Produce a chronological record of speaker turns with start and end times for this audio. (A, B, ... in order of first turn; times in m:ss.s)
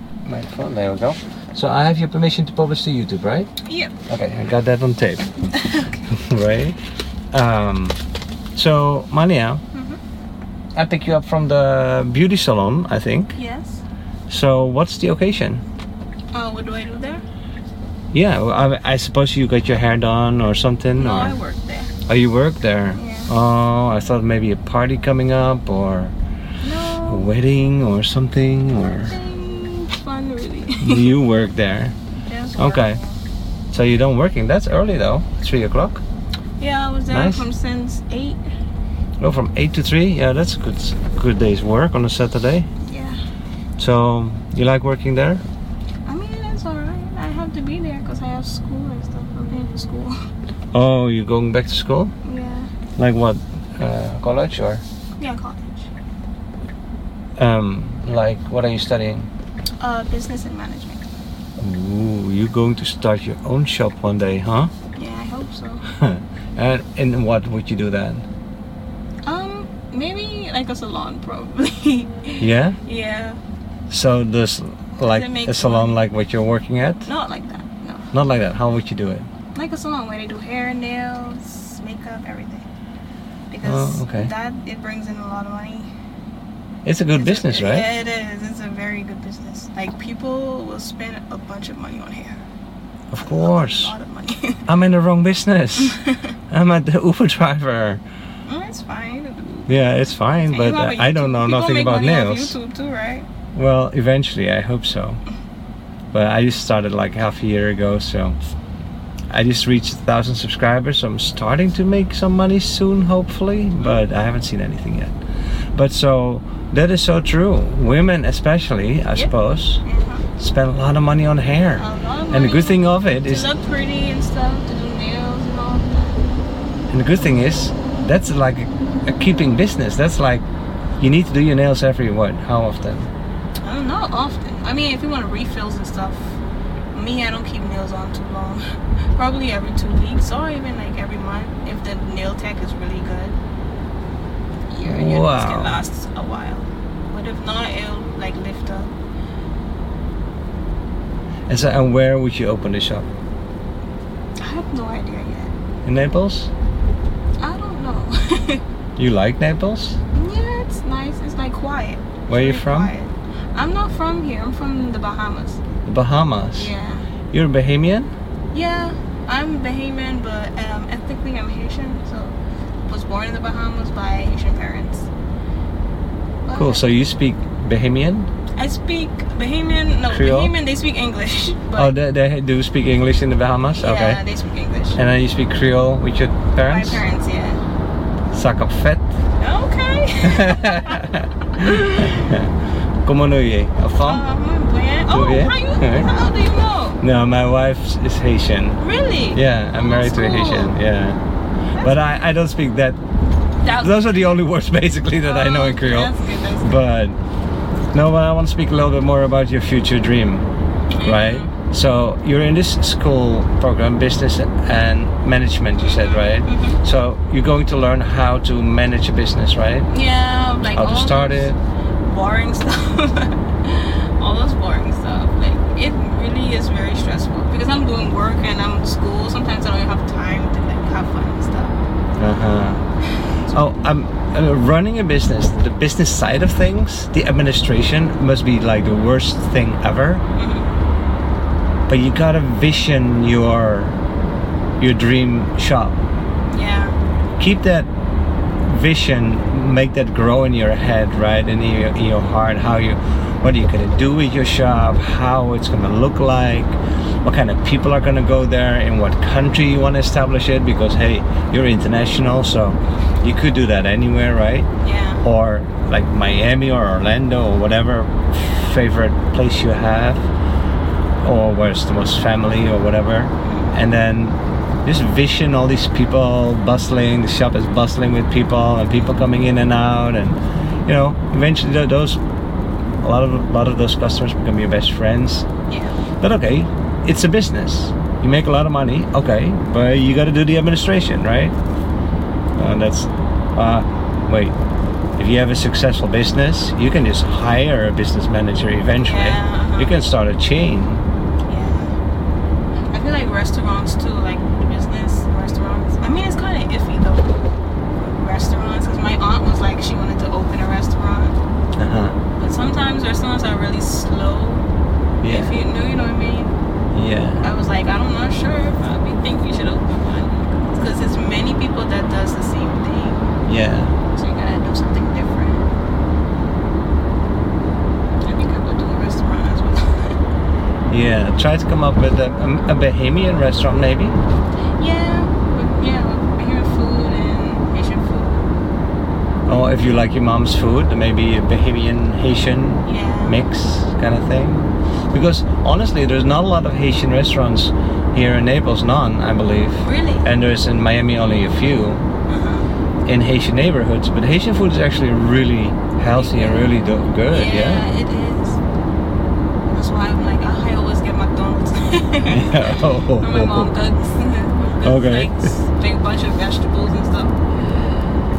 0:00.3-0:03.5 A
0:03.6-0:04.0 B
0:04.1-0:05.4 A
0:05.5-0:06.0 B
0:06.1-0:06.8 A
0:07.3-0:08.0 A
0:08.6-0:09.6 A
0:09.7-0:10.0 B
0:10.8-0:13.4 A
0:13.4-0:13.8 B
0:14.3-0:15.6 A
0:16.3-0:17.2 B
0:18.1-0:21.4 A
0:21.0-0:21.9 B
0:22.1-0:26.2 A
0:22.9-0:23.3 B
0:26.6-0:27.3 B
0:27.1-0:29.2 A
0:29.0-0:31.2 B
0:30.8-0:32.0 A
0:32.3-0:33.2 B
0:32.6-0:33.0 A
0:33.7-0:36.0 A
0:36.6-0:38.4 B
0:37.1-0:37.5 A
0:39.2-0:42.7 A
0:42.8-0:43.2 B
0:43.8-0:45.4 A
0:46.1-0:50.2 B
0:50.7-0:52.1 A
0:52.2-0:52.7 B
0:53.0-0:54.8 A
0:55.2-0:55.9 B
0:57.4-0:59.3 A
0:59.8-1:01.1 B
1:01.6-1:04.7 A
1:05.0-1:05.8 B
1:05.9-1:08.3 A
1:09.2-1:13.4 B
1:12.4-1:12.8 A
1:13.9-1:17.1 A
1:15.0-1:16.0 B
1:17.0-1:18.1 B
1:18.1-1:19.3 A
1:19.5-1:22.6 B
1:23.5-1:25.9 B
1:23.6-1:24.3 A
1:26.8-1:27.9 A
1:27.1-1:32.4 B
1:33.1-1:33.9 A
1:33.2-1:34.7 B
1:34.7-1:38.0 A
1:35.8-1:36.3 B
1:38.4-1:39.7 B
1:39.7-1:42.6 A
1:40.4-1:43.3 B
1:43.5-1:45.2 A
1:46.1-1:48.4 A
1:49.3-1:55.2 A
1:55.8-1:59.8 A
1:59.8-2:00.2 B
2:00.4-2:03.5 A
2:01.8-2:06.2 B
2:06.9-2:10.4 A
2:11.0-2:13.1 A
2:13.6-2:16.4 B
2:16.9-2:18.6 B
2:19.2-2:23.4 B
2:24.7-2:28.9 B
2:24.8-2:25.8 A
2:31.5-2:33.1 A
2:34.4-2:35.5 B
2:35.8-2:36.5 A
2:37.4-2:38.6 B
2:39.0-2:40.0 A
2:40.1-2:45.6 B
2:42.3-2:42.9 A
2:45.9-2:46.7 A
2:46.6-2:47.1 B
2:47.3-2:48.1 A
2:48.5-2:55.1 B
2:56.4-2:56.9 B
2:56.5-2:58.3 A
2:58.6-3:02.0 B
3:00.1-3:00.6 A
3:01.8-3:04.2 A
3:03.8-3:05.0 B
3:05.0-3:07.0 A
3:06.6-3:07.6 B
3:08.3-3:09.1 A
3:09.4-3:12.3 B
3:10.2-3:14.2 A
3:14.0-3:17.0 B
3:15.1-3:16.1 A
3:17.0-3:18.8 A
3:18.8-3:20.8 B
3:19.3-3:21.2 A
3:21.8-3:22.1 B
3:21.8-3:23.0 A
3:23.6-3:24.3 B
3:23.7-3:27.2 A
3:25.2-3:26.7 B
3:27.9-3:39.9 A
3:30.9-3:31.5 B
3:35.8-3:36.8 B
3:39.9-3:51.8 B
3:40.6-3:41.6 A
3:52.2-3:52.8 A
3:53.3-3:53.7 B
3:53.5-4:00.2 A
4:00.4-4:00.7 B
4:01.9-4:04.0 A
4:04.8-4:06.0 A
4:06.5-4:07.0 B
4:07.4-4:07.9 A
4:08.7-4:24.7 A
4:24.8-4:25.2 B
4:25.2-4:30.3 A
4:31.2-4:42.2 A
4:33.4-4:33.7 B
4:43.0-4:45.5 A
4:45.7-4:46.0 B
4:46.2-4:51.6 A
4:52.6-4:54.6 A
4:55.2-5:01.0 A
4:59.0-5:00.1 B
5:01.5-5:02.0 B
5:02.9-5:07.4 B
5:08.0-5:11.4 B
5:11.8-5:12.2 A
5:12.4-5:14.7 B
5:15.2-5:15.6 A
5:15.2-5:16.6 B
5:16.9-5:17.4 A
5:17.4-5:23.3 B
5:23.5-5:24.0 A
5:24.1-5:25.6 B
5:28.2-5:30.2 B
5:30.9-5:34.2 A
5:34.8-5:38.4 B
5:39.5-5:52.0 A
5:42.8-5:43.4 B
5:49.8-5:50.3 B
5:52.3-5:52.7 B
5:53.1-5:57.9 A
5:56.1-5:58.6 B
5:59.7-6:07.4 B
6:02.3-6:03.7 A
6:04.8-6:05.5 A